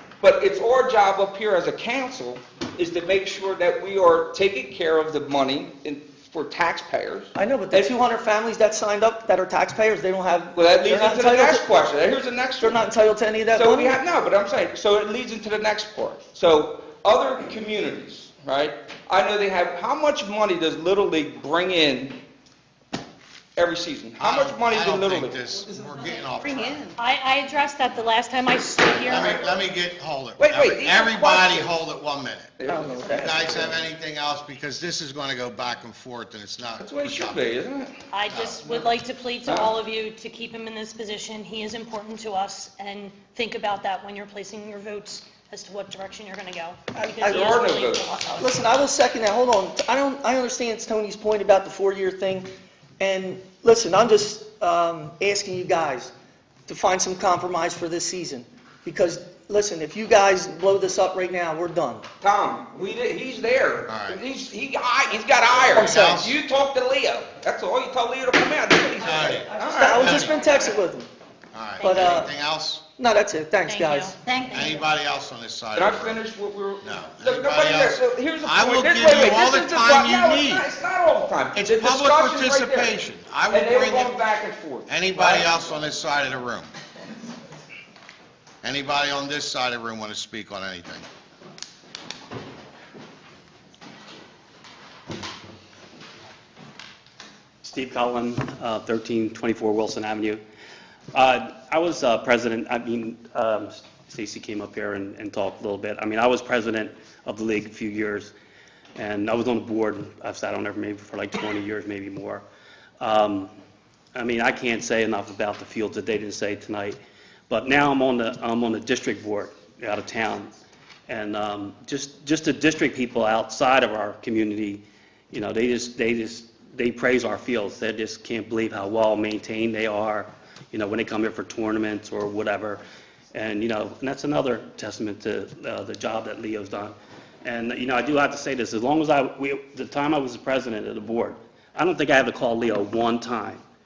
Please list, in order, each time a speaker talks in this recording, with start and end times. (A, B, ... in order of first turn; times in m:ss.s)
0:00.2-0:07.3 A
0:07.4-0:11.7 B
0:10.6-0:12.8 A
0:12.6-0:14.0 B
0:13.5-0:22.2 A
0:23.6-0:25.4 A
0:24.2-0:26.9 C
0:26.2-0:29.4 D
0:29.0-0:37.5 C
0:29.1-0:29.6 A
0:30.4-0:31.7 A
0:32.6-0:33.8 A
0:32.7-0:33.7 B
0:36.8-0:38.0 A
0:38.1-0:48.6 D
0:38.3-0:38.7 C
0:39.4-0:39.7 A
0:46.9-0:47.6 B
0:47.2-0:48.1 A
0:48.4-0:56.1 B
0:56.7-1:02.0 B
1:02.2-1:10.8 A
1:03.9-1:04.2 C
1:05.6-1:06.3 B
1:05.7-1:06.4 C
1:09.0-1:11.1 B
1:09.0-1:10.4 C
1:11.5-1:12.8 C
1:11.8-1:12.3 D
1:11.8-1:12.3 B
1:13.0-1:14.2 B
1:13.7-1:14.8 D
1:14.5-1:16.2 C
1:15.8-1:25.8 A
1:16.8-1:20.7 C
1:21.5-1:24.2 C
1:24.9-1:26.7 C
1:28.6-1:31.1 C
1:37.6-1:40.4 E
1:41.1-1:48.3 E
1:49.0-1:52.5 E
1:53.0-1:53.5 E
1:54.1-1:57.0 E
1:57.5-2:00.6 E
2:01.1-2:12.8 E
2:13.3-2:23.6 E